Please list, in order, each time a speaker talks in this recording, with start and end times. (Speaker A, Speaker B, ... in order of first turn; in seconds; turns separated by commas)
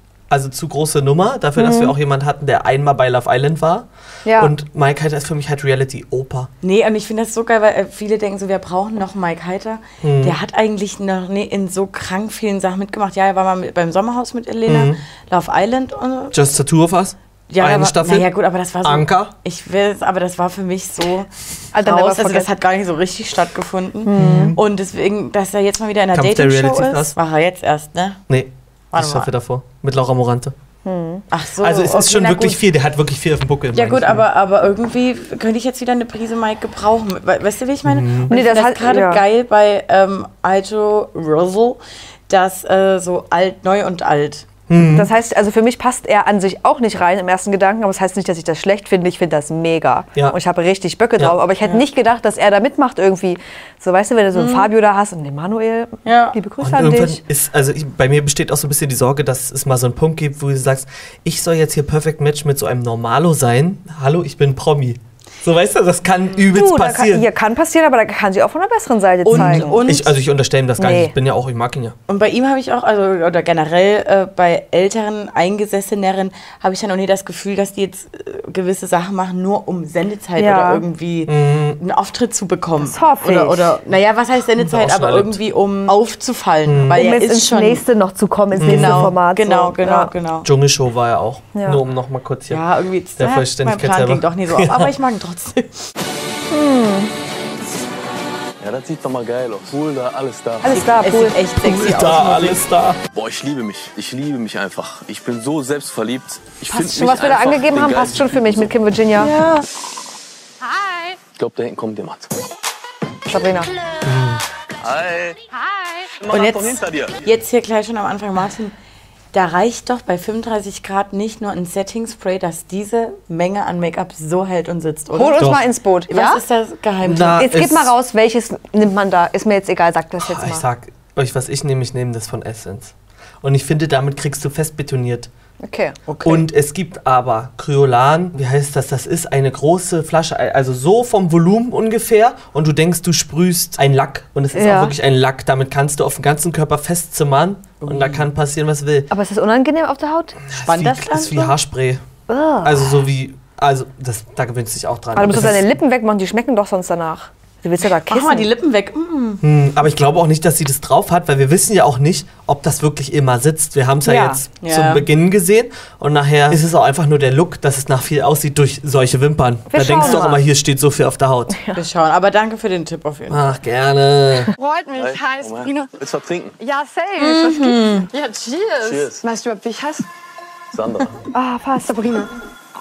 Speaker A: 0.3-6.5, Speaker B: 1.6-1.9, Speaker B: 4.2-4.5, Speaker C: 6.6-16.4, Speaker A: 10.0-10.4, Speaker A: 14.7-15.0, Speaker A: 16.3-18.3, Speaker C: 17.5-28.2, Speaker A: 18.8-19.3, Speaker B: 21.7-22.5, Speaker B: 24.0-24.5, Speaker A: 24.1-24.6, Speaker A: 26.1-27.1, Speaker A: 28.3-30.5, Speaker C: 28.9-29.3, Speaker B: 30.8-31.2, Speaker C: 31.3-32.6, Speaker A: 31.6-34.2, Speaker C: 33.7-44.5, Speaker A: 37.9-38.3, Speaker B: 38.3-39.2, Speaker A: 44.7-45.1, Speaker B: 44.9-57.2, Speaker C: 54.3-54.7, Speaker C: 56.0-56.4, Speaker A: 56.6-67.3, Speaker B: 66.5-69.8, Speaker C: 69.2-70.2, Speaker A: 69.3-72.0, Speaker B: 70.8-71.1, Speaker C: 72.1-87.8, Speaker B: 80.4-80.8, Speaker A: 81.3-81.8, Speaker B: 82.8-83.7, Speaker A: 84.6-85.4, Speaker A: 86.6-87.0, Speaker B: 86.9-90.1, Speaker A: 88.5-89.1, Speaker C: 88.6-90.5, Speaker A: 90.4-92.6, Speaker B: 91.5-91.8, Speaker C: 92.5-95.9, Speaker A: 93.2-94.9, Speaker B: 96.5-97.1, Speaker D: 98.6-100.7, Speaker B: 100.6-101.4, Speaker C: 100.7-102.6, Speaker A: 101.6-103.0, Speaker D: 103.1-108.7, Speaker B: 106.7-109.3, Speaker C: 109.2-109.6, Speaker D: 111.3-112.3, Speaker B: 113.3-113.7, Speaker A: 114.0-114.4, Speaker D: 114.8-115.4, Speaker D: 116.2-117.2, Speaker C: 116.3-118.7, Speaker C: 119.3-125.5, Speaker B: 125.1-126.4, Speaker C: 126.1-127.4, Speaker A: 127.0-127.9, Speaker B: 127.4-130.6, Speaker A: 130.2-135.3, Speaker B: 135.6-136.0, Speaker C: 136.1-136.4, Speaker A: 136.2-149.1, Speaker B: 144.5-144.9, Speaker C: 147.8-148.2, Speaker B: 149.1-150.4, Speaker A: 150.5-152.0, Speaker C: 150.5-151.5, Speaker B: 152.3-153.0, Speaker A: 152.6-155.7, Speaker B: 155.1-158.5, Speaker C: 158.1-159.4, Speaker A: 159.4-171.6, Speaker B: 164.0-164.4, Speaker C: 164.6-165.0, Speaker B: 169.7-170.4, Speaker C: 171.7-173.4, Speaker A: 173.3-174.5, Speaker E: 174.6-175.9, Speaker D: 174.9-176.6, Speaker E: 176.6-180.1, Speaker C: 177.2-178.1, Speaker D: 178.8-179.2, Speaker D: 180.7-181.2, Speaker B: 181.3-182.3